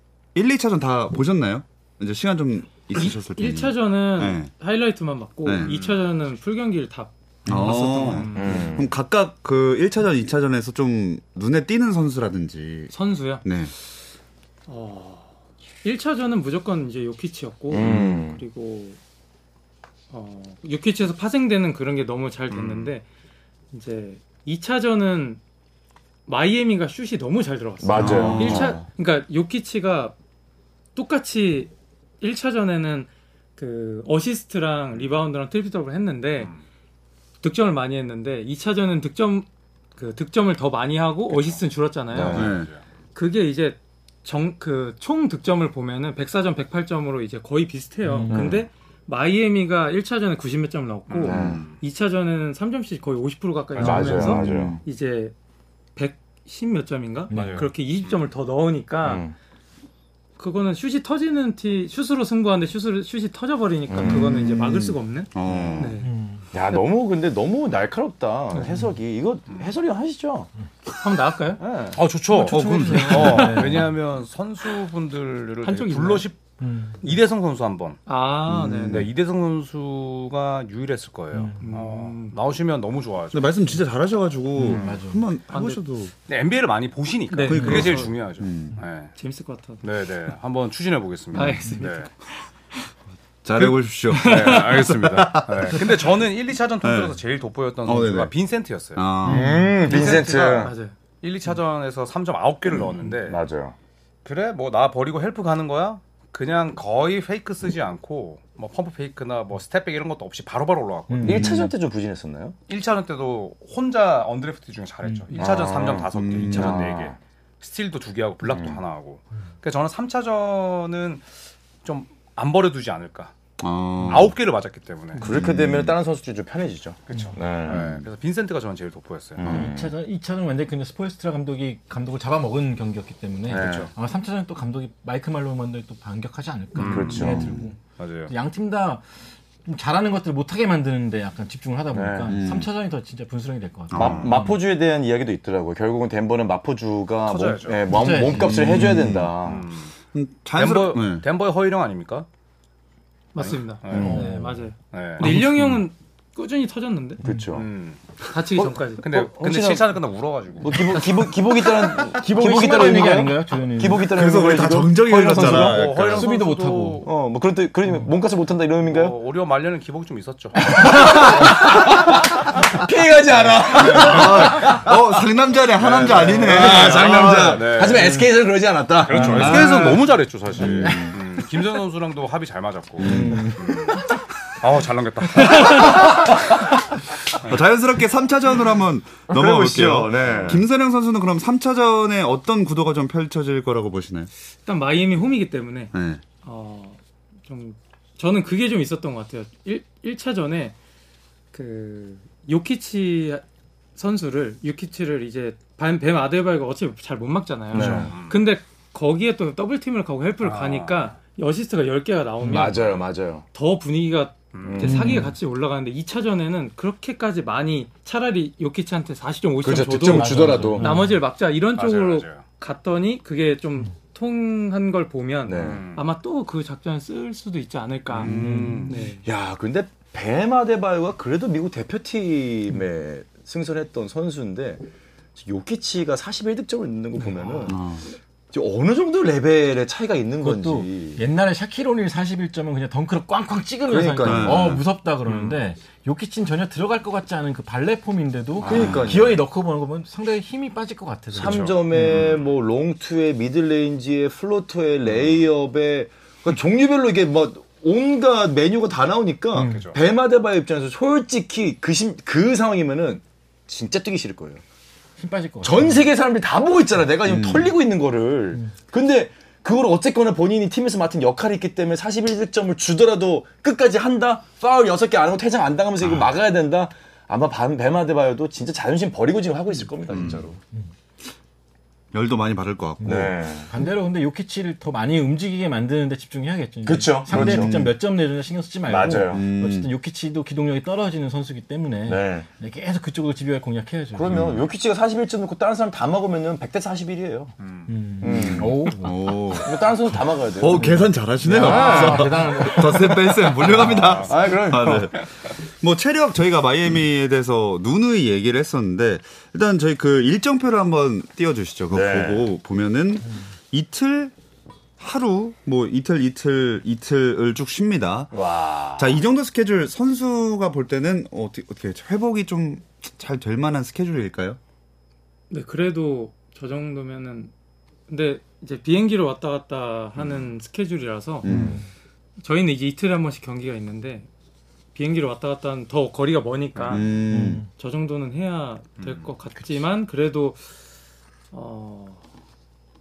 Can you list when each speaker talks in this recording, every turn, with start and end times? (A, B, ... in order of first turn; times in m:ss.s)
0:00.3-0:04.5 A
0:02.9-0:08.8 B
0:05.4-0:05.8 A
0:05.6-0:06.0 C
0:07.4-0:12.9 A
0:08.0-0:08.5 C
0:08.4-0:08.9 D
0:12.9-0:13.4 B
0:13.4-0:13.7 A
0:14.7-0:15.3 B
0:15.8-0:19.0 B
0:17.7-0:18.4 D
0:17.8-0:18.2 A
0:20.1-0:23.0 B
0:22.5-0:22.9 C
0:23.7-0:25.4 B
0:26.3-0:30.2 B
0:27.8-0:28.8 D
0:28.0-0:28.7 A
0:28.0-0:28.4 C
0:30.9-0:36.5 B
0:37.4-0:39.4 B
0:40.0-0:42.5 B
0:41.3-0:41.6 C
0:42.1-0:42.5 D
0:42.2-0:42.8 C
0:42.3-0:42.7 A
0:43.1-0:55.3 B
0:48.0-0:48.6 E
0:48.3-0:48.6 D
0:51.1-0:51.8 C
0:51.2-0:51.6 D
0:53.7-0:54.2 C
0:53.8-0:54.8 D
0:54.1-0:54.6 E
0:56.0-0:59.2 B
0:57.3-0:57.7 E
0:57.3-0:58.2 C
0:59.0-0:59.3 D
1:00.4-1:06.1 B
1:03.9-1:05.9 D
1:04.1-1:04.4 E
1:05.3-1:05.9 A
1:06.0-1:06.4 E
1:06.5-1:10.5 D
1:10.9-1:11.6 B
1:11.6-1:12.0 D
1:11.9-1:18.0 C
1:12.3-1:13.9 E
1:12.5-1:13.6 A
1:13.1-1:13.5 B
1:15.6-1:16.3 B
1:16.6-1:17.0 E
1:18.0-1:19.1 B
1:18.5-1:19.0 A
1:18.8-1:23.8 C
1:21.3-1:21.7 E
1:21.6-1:22.4 B
1:23.3-1:26.1 A
1:24.6-1:25.2 E
1:24.6-1:25.0 C
1:25.5-1:25.8 B
1:26.3-1:29.1 C
1:27.3-1:28.1 B
1:27.5-1:28.8 A
1:29.1-1:29.8 B
1:29.8-1:32.1 C
1:31.3-1:32.1 B
1:33.4-1:36.1 A
1:33.6-1:39.0 C
1:34.1-1:34.8 B
1:36.8-1:37.2 A
1:37.8-1:38.3 A
1:38.9-1:39.5 A
1:39.2-1:39.7 E
1:39.3-1:40.7 D
1:39.8-1:40.9 B
1:39.8-1:43.4 C
1:42.7-1:43.7 D
1:44.2-1:51.5 C
1:51.1-1:51.7 E
1:51.2-1:52.6 D
1:52.7-2:01.2 C
1:55.4-1:57.2 D
1:56.1-1:56.8 A
1:58.5-1:58.8 D
2:01.8-2:03.3 C
2:03.6-2:04.3 A
2:04.0-2:05.2 C
2:05.2-2:08.0 D
2:05.3-2:05.9 A
2:07.1-2:09.5 C
2:09.4-2:10.0 D
2:09.4-2:17.8 E
2:13.5-2:13.9 C
2:13.5-2:13.9 D
2:16.8-2:17.4 C
2:16.8-2:17.6 D
2:17.1-2:17.6 A
2:18.0-2:18.3 C
2:18.3-2:19.0 E
2:19.6-2:24.5 E
2:21.9-2:22.4 D
2:22.3-2:22.7 A
2:23.9-2:24.5 A
2:23.9-2:29.6 D
2:27.2-2:27.8 C
2:27.9-2:29.1 E
2:28.3-2:29.4 A
2:29.4-2:29.9 C
2:30.1-2:31.2 A
2:30.6-2:32.2 C
2:33.3-2:37.2 B
2:33.4-2:34.2 C
2:33.9-2:34.2 D
2:34.0-2:34.6 E
2:34.9-2:35.3 C
2:35.2-2:35.8 A
2:37.2-2:37.5 E
2:37.2-2:37.7 D
2:37.5-2:38.0 C
2:38.3-2:39.0 B
2:38.5-2:40.0 D
2:39.0-2:41.1 C
2:40.6-2:45.8 D
2:42.1-2:44.2 E
2:44.0-2:46.3 A
2:45.1-2:47.1 C
2:45.4-2:47.1 E
2:47.0-2:49.2 D
2:48.8-2:51.7 C
2:50.6-2:55.0 D
2:53.7-2:54.5 C
2:53.8-2:57.7 A
2:55.8-2:58.2 C
2:56.0-3:00.0 D
2:59.0-3:03.9 C
2:59.2-2:59.8 E
2:59.3-2:59.9 A
3:00.6-3:01.0 D
3:00.6-3:01.1 A
3:00.6-3:01.2 E
3:03.0-3:03.5 A
3:03.0-3:03.8 D
3:03.0-3:03.5 E
3:04.6-3:06.3 C
3:07.4-3:14.3 A
3:09.3-3:10.6 D
3:10.2-3:10.6 C
3:14.6-3:20.7 B
3:15.9-3:16.2 A
3:21.5-3:23.4 B
3:24.0-3:33.0 B
3:27.7-3:28.1 D
3:27.7-3:28.4 C
3:30.4-3:31.1 C
3:32.4-3:32.8 E
3:32.4-3:33.4 D
3:33.5-3:48.3 B
3:34.5-3:34.9 C
3:34.6-3:35.2 D
3:34.8-3:35.3 E
3:39.6-3:40.9 D
3:40.0-3:41.2 E
3:41.8-3:42.4 C
3:45.4-3:45.8 D
3:45.5-3:46.0 C
3:48.1-3:48.9 C
3:48.2-3:49.1 E
3:48.3-3:57.8 D
3:48.9-3:49.2 B
3:57.2-3:57.6 B
3:57.6-3:58.0 A
3:58.5-4:01.2 D
4:00.4-4:12.2 E
4:03.8-4:04.8 D
4:04.2-4:04.8 A
4:05.2-4:05.6 C
4:08.6-4:09.4 D
4:08.6-4:09.2 A
4:11.3-4:12.2 C
4:11.3-4:24.6 D
4:19.5-4:19.9 E
4:19.6-4:20.0 C
4:25.2-4:26.1 E
4:25.6-4:40.6 D
4:27.2-4:27.7 A
4:40.1-4:40.4 A
4:42.1-4:43.4 A
4:43.0-4:54.5 E
4:43.0-4:43.7 D
4:46.8-4:47.7 D
4:47.3-4:47.9 A
4:48.9-4:49.4 D
4:49.2-4:49.9 A
4:52.0-4:52.5 D
4:54.1-4:57.5 D
4:54.2-4:54.7 A
4:57.6-4:57.9 C
4:57.9-4:59.4 E
4:58.2-4:58.8 D
4:58.3-5:05.2 A
4:59.5-5:05.1 D
5:00.8-5:03.4 E
5:03.6-5:04.3 C
5:05.8-5:14.3 A
5:11.9-5:12.5 D
5:15.0-5:24.6 A
5:18.3-5:19.2 D
5:25.5-5:27.5 B
5:28.1-5:31.5 B
5:31.4-5:31.8 A
5:31.4-5:31.8 D
5:31.5-5:31.9 E
5:32.4-5:34.3 B
5:34.9-5:37.1 B
5:36.9-5:37.6 A
5:37.3-5:37.7 E
5:37.7-5:40.6 B
5:39.0-5:39.3 C
5:41.5-5:42.2 B